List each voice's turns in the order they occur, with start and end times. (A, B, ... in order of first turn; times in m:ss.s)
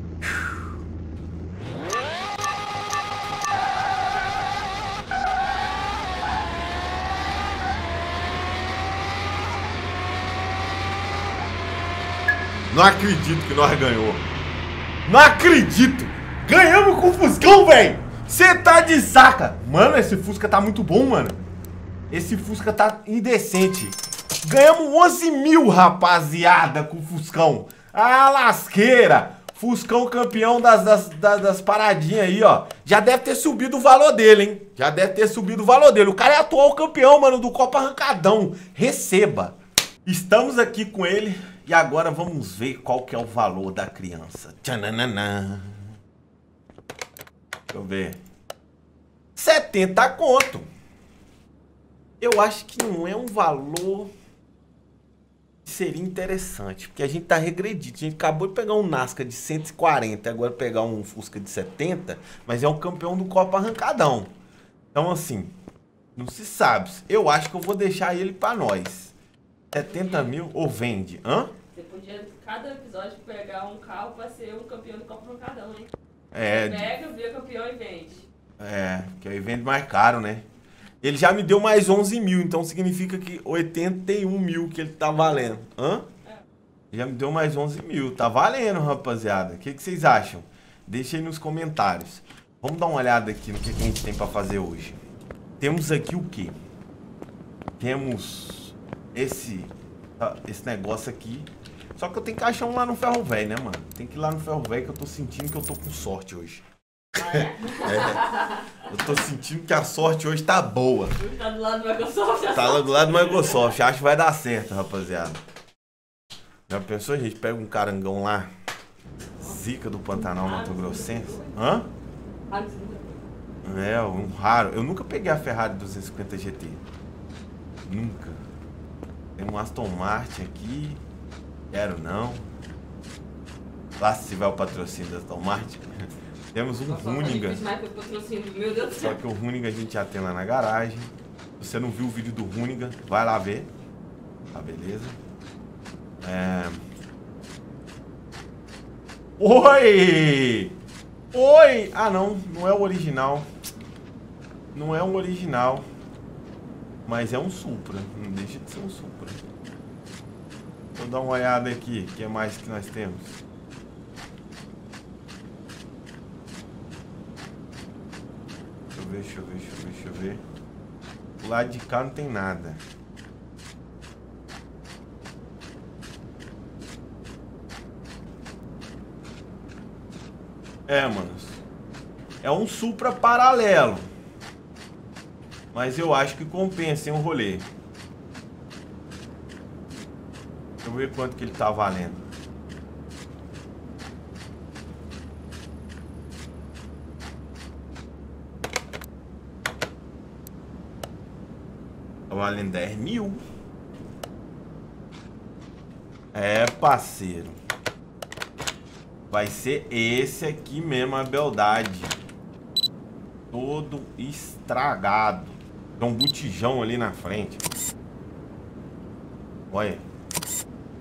0:12.7-0:14.2 A
0:15.1-0:21.4 A
0:22.1-0:45.9 A
0:47.7-0:48.2 A
0:49.4-0:50.7 A
0:52.2-0:54.1 A
0:55.6-1:04.3 A
1:04.9-1:05.6 A
1:06.2-1:09.1 A
1:09.7-1:11.5 A
1:09.8-1:10.3 B
1:11.7-1:15.9 B
1:16.3-1:16.9 A
1:16.5-1:18.3 B
1:18.6-1:20.4 A
1:21.0-1:26.1 A
1:26.9-1:35.0 A
1:35.6-1:36.6 A
1:37.8-1:46.6 A
1:47.2-1:48.7 B
1:47.2-1:51.2 A
1:51.2-1:53.7 B
1:52.5-1:55.4 A
1:56.7-1:58.5 A
1:59.4-2:01.9 A
2:00.1-2:01.6 B
2:02.5-2:03.3 B
2:03.6-2:06.8 A
2:07.9-2:08.4 A
2:09.4-2:11.0 A
2:11.7-2:12.4 A
2:14.0-2:17.6 A
2:16.9-2:19.2 B
2:19.0-2:23.7 A
2:24.5-2:25.2 A
2:26.2-2:26.8 A
2:29.4-2:30.8 A
2:31.3-2:33.5 A
2:34.7-2:35.8 A
2:37.1-2:39.4 A
2:41.0-2:43.4 A
2:49.0-2:50.4 A
2:51.4-2:52.8 A
3:00.9-3:01.6 A
3:02.4-3:04.1 A
3:05.7-3:07.7 A
3:10.8-3:12.2 A
3:22.3-3:23.4 A
3:26.3-3:27.6 A
3:29.3-3:32.2 A
3:33.5-3:37.6 A
3:39.7-3:40.0 A